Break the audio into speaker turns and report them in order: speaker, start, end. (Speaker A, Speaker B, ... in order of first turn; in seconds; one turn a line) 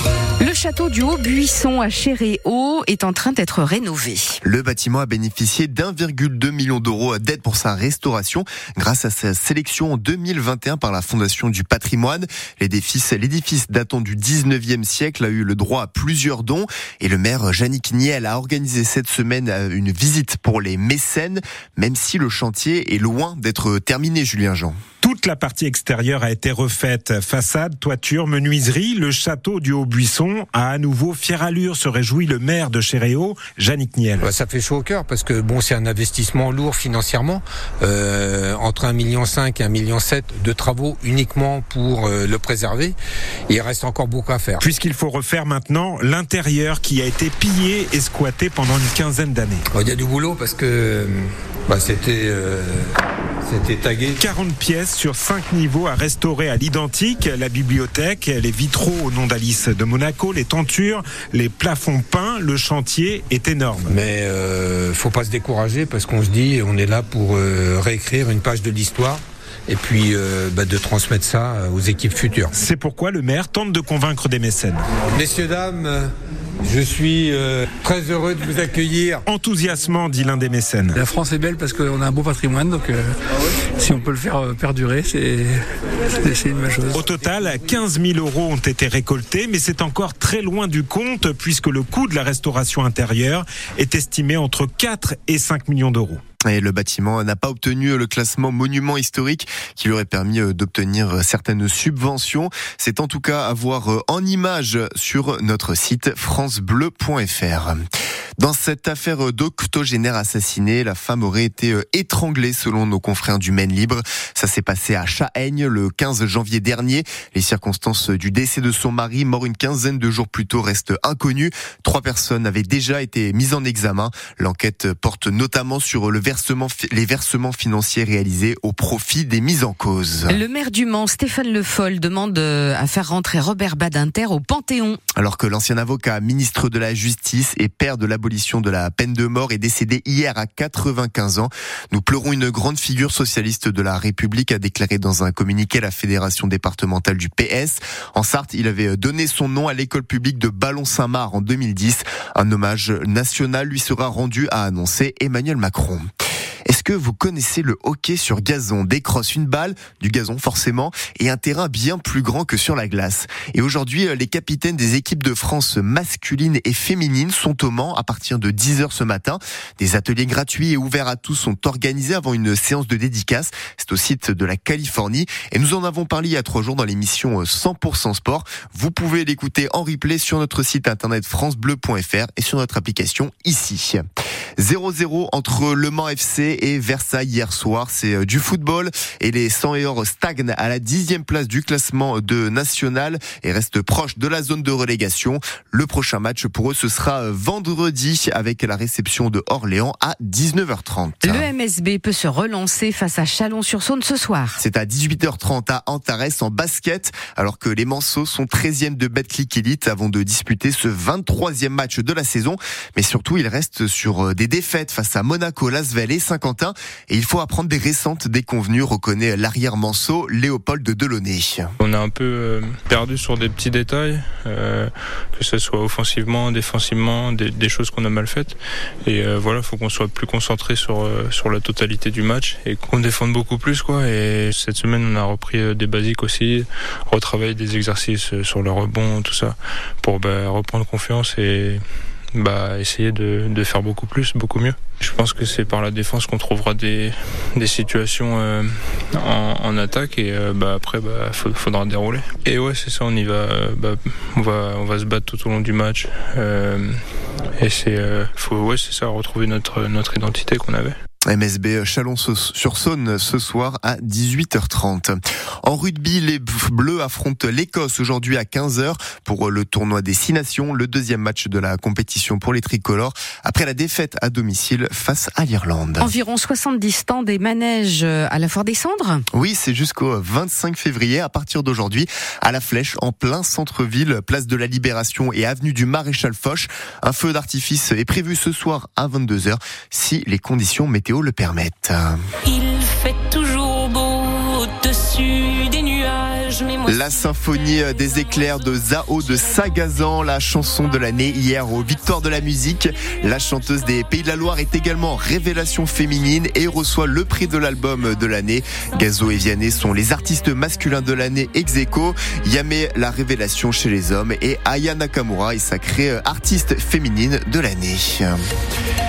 Speaker A: 0.4-4.4
Speaker B: 4.4-24.8
Speaker C: 25.0-34.3
Speaker D: 34.2-43.0
Speaker D: 43.5-44.6
Speaker C: 44.6-49.6
Speaker D: 49.7-54.1
Speaker C: 54.2-64.0
Speaker D: 63.9-72.5
Speaker C: 72.5-74.8
Speaker D: 75.1-76.1
Speaker D: 76.6-79.2
Speaker C: 79.3-81.0
Speaker E: 80.9-83.1
Speaker E: 83.8-85.6
Speaker E: 86.2-87.0
Speaker C: 86.9-96.2
Speaker B: 96.5-107.8
Speaker B: 108.4-130.4
Speaker A: 130.3-135.0
Speaker B: 135.2-156.1
Speaker B: 156.7-184.0
Speaker B: 184.6-201.5
Speaker A: 201.2-204.6
Speaker B: 204.6-221.7
Speaker F: 221.8-241.8
Speaker F: 242.3-257.0
Speaker F: 257.6-260.9
Speaker B: 261.3-276.1
Speaker A: 276.0-279.2
Speaker B: 279.3-292.2
Speaker G: 292.5-297.3
Speaker B: 296.9-318.4